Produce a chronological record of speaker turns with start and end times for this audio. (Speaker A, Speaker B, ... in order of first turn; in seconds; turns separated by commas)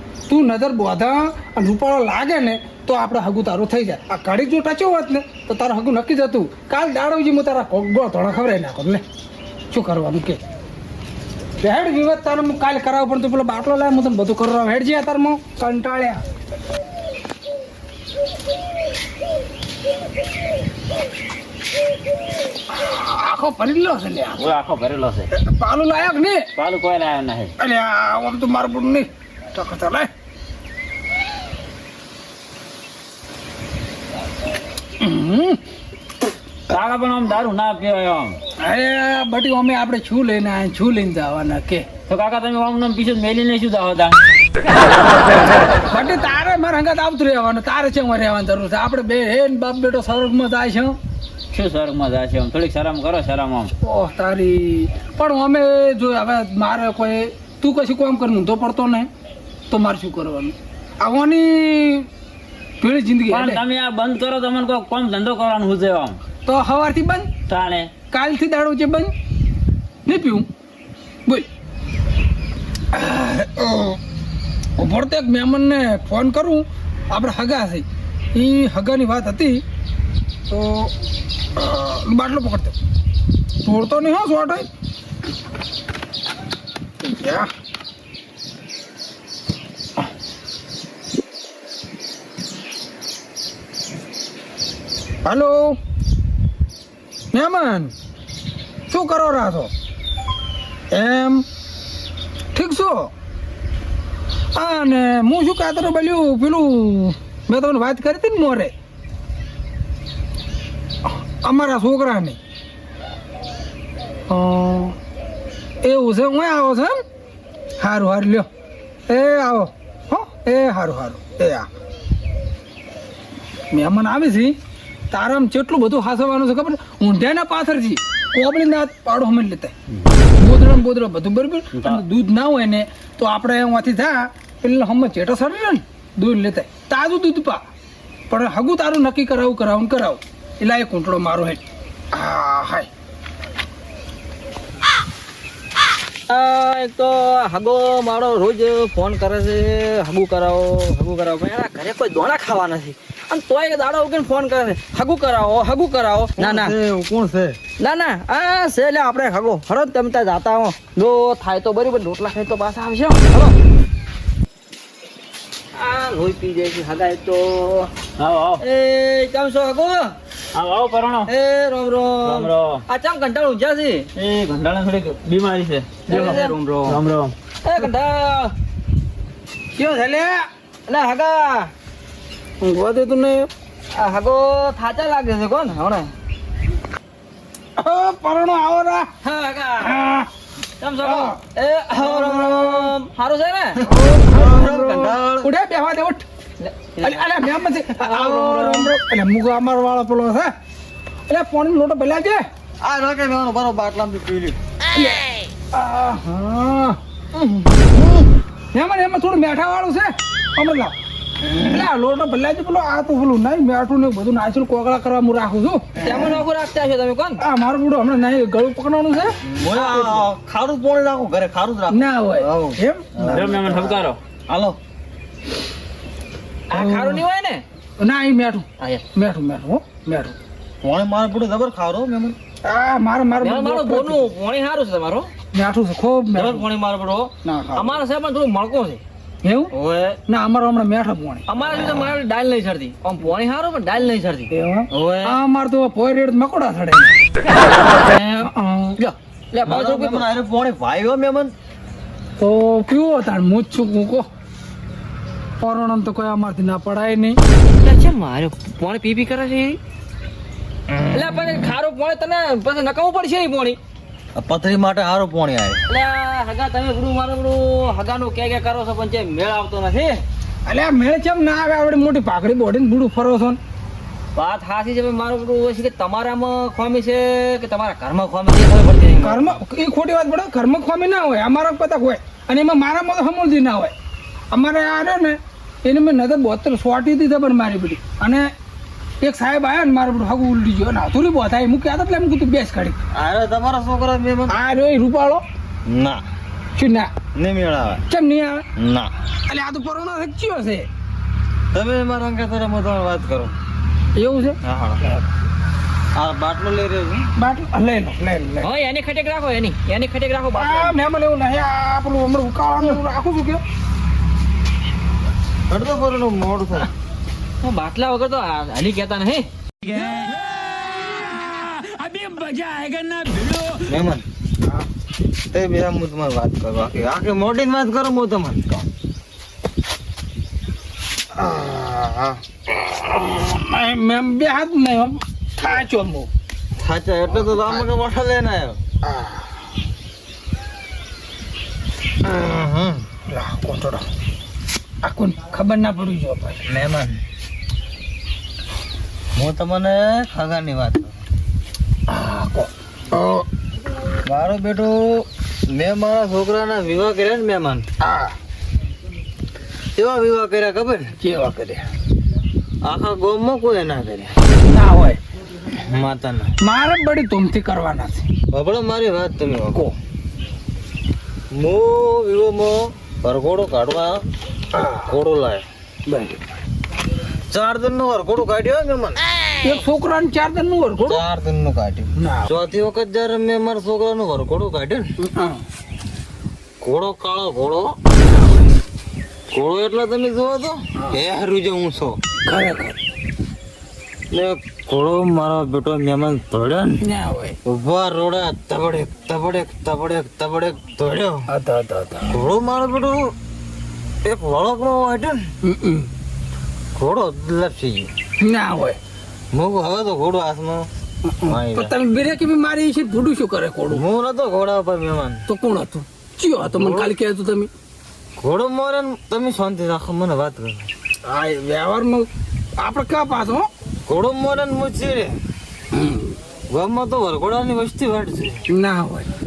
Speaker A: 0.3-9.0, Speaker A: 9.7-10.4, Speaker A: 11.6-16.2, Speaker A: 22.7-24.4, Speaker B: 24.4-25.3, Speaker A: 25.3-26.5, Speaker B: 26.6-27.5, Speaker A: 27.6-30.1, Speaker A: 35.0-35.6, Speaker B: 36.7-38.4, Speaker A: 38.6-41.9, Speaker B: 42.1-44.2, Speaker A: 45.9-51.0, Speaker B: 51.5-53.7, Speaker A: 53.8-59.1, Speaker A: 59.7-62.1, Speaker A: 62.8-63.6, Speaker B: 63.3-66.2, Speaker A: 66.5-67.3, Speaker B: 67.5-67.9, Speaker A: 68.1-69.1, Speaker A: 70.0-70.5, Speaker A: 72.9-74.0, Speaker A: 74.8-79.6, Speaker A: 80.5-80.9, Speaker A: 81.5-82.7, Speaker A: 83.6-84.7, Speaker A: 87.0-87.5, Speaker A: 95.2-95.8, Speaker A: 97.3-97.9, Speaker A: 98.9-99.7, Speaker A: 100.9-101.5, Speaker A: 102.5-103.1, Speaker A: 104.5-108.7, Speaker A: 111.4-112.4, Speaker A: 114.3-115.0, Speaker A: 115.8-117.0, Speaker A: 117.8-118.5, Speaker A: 119.1-121.7, Speaker A: 123.7-124.5, Speaker A: 125.1-129.7, Speaker A: 130.4-137.6, Speaker B: 131.7-132.0, Speaker A: 138.3-142.9, Speaker C: 146.3-156.8, Speaker D: 156.4-157.6, Speaker C: 157.8-163.6, Speaker C: 165.7-167.9, Speaker B: 168.2-168.6, Speaker C: 168.6-170.2, Speaker B: 170.5-171.3, Speaker C: 171.3-174.1, Speaker B: 172.2-172.8, Speaker B: 174.2-177.3, Speaker C: 176.1-177.0, Speaker C: 177.6-178.5, Speaker A: 179.8-180.4, Speaker C: 180.9-181.7, Speaker A: 182.6-183.5, Speaker C: 183.9-186.1, Speaker A: 187.8-189.1, Speaker C: 189.2-190.0, Speaker A: 189.8-190.3, Speaker C: 190.8-193.8, Speaker A: 191.0-191.4, Speaker D: 192.0-193.0, Speaker D: 193.8-195.5, Speaker A: 193.8-196.2, Speaker C: 196.6-198.9, Speaker A: 197.0-200.5, Speaker A: 201.3-202.4, Speaker D: 202.8-204.6, Speaker A: 204.9-205.2, Speaker A: 205.7-207.0, Speaker C: 207.3-208.1, Speaker A: 208.7-210.9, Speaker A: 211.6-216.3, Speaker C: 216.0-217.4, Speaker A: 217.4-219.3, Speaker D: 219.4-224.8, Speaker C: 219.7-220.2, Speaker A: 221.9-223.1, Speaker B: 223.2-224.2, Speaker C: 226.7-227.7, Speaker A: 226.7-227.2, Speaker A: 228.0-230.3, Speaker D: 230.8-232.4, Speaker A: 232.6-234.3, Speaker C: 233.4-235.3, Speaker A: 235.5-236.7, Speaker C: 236.3-239.0, Speaker A: 237.4-238.0, Speaker A: 239.4-239.7, Speaker C: 239.7-240.2, Speaker A: 240.3-241.4, Speaker C: 241.5-245.4, Speaker D: 241.6-242.2, Speaker A: 244.5-247.1, Speaker C: 247.6-250.2, Speaker A: 248.4-249.0, Speaker D: 249.7-251.5, Speaker A: 252.4-254.3, Speaker A: 255.6-257.4, Speaker C: 257.8-259.8, Speaker D: 260.9-261.6, Speaker C: 261.1-263.8, Speaker D: 264.4-265.8, Speaker C: 265.9-270.2, Speaker A: 270.6-273.6, Speaker C: 274.4-279.6, Speaker A: 279.2-283.9, Speaker A: 284.5-288.5, Speaker A: 289.2-293.0, Speaker D: 293.1-294.6, Speaker A: 294.5-295.4, Speaker D: 295.9-296.2, Speaker A: 296.8-297.1, Speaker D: 297.4-298.0, Speaker A: 298.1-298.6, Speaker D: 298.8-299.1, Speaker A: 299.5-300.9, Speaker D: 301.7-303.5, Speaker A: 304.2-305.2, Speaker D: 304.6-305.0, Speaker D: 306.1-307.3, Speaker A: 307.4-308.7, Speaker C: 308.6-311.0, Speaker A: 310.5-313.6, Speaker D: 315.7-316.9, Speaker C: 317.6-319.5, Speaker B: 319.8-324.0, Speaker D: 323.9-324.2, Speaker D: 325.5-328.9, Speaker A: 331.3-336.3, Speaker D: 336.8-338.8, Speaker A: 339.0-339.4, Speaker D: 342.2-343.1, Speaker A: 343.2-344.1, Speaker A: 345.0-346.6, Speaker D: 346.7-347.2, Speaker D: 349.4-351.2, Speaker A: 352.1-353.4, Speaker D: 354.2-357.9, Speaker A: 358.0-358.3, Speaker D: 359.9-361.1, Speaker A: 361.2-361.9, Speaker D: 362.8-364.4, Speaker A: 364.6-365.2, Speaker D: 365.7-366.5, Speaker A: 366.6-368.3, Speaker D: 368.5-369.9, Speaker D: 371.5-374.2, Speaker A: 374.7-375.1, Speaker D: 375.0-375.6, Speaker A: 376.1-376.4, Speaker D: 377.5-379.2, Speaker A: 379.6-381.2, Speaker D: 381.1-385.1, Speaker A: 382.2-382.5, Speaker A: 385.2-385.6, Speaker D: 386.8-387.9, Speaker A: 388.1-388.7, Speaker D: 389.5-392.2, Speaker A: 392.4-393.0, Speaker D: 394.3-397.0, Speaker A: 397.0-397.6, Speaker D: 397.6-401.5, Speaker A: 401.5-402.4, Speaker D: 402.3-403.3, Speaker D: 404.2-405.4, Speaker A: 405.6-406.1, Speaker D: 406.9-408.1, Speaker A: 408.4-409.0, Speaker D: 409.5-410.9, Speaker A: 411.3-414.0, Speaker D: 411.4-411.9, Speaker D: 413.9-415.4, Speaker A: 415.5-417.7, Speaker D: 416.6-417.1, Speaker D: 418.4-420.9, Speaker A: 421.2-423.7, Speaker D: 424.1-425.4, Speaker A: 425.9-426.4, Speaker D: 426.7-428.6, Speaker A: 428.7-429.3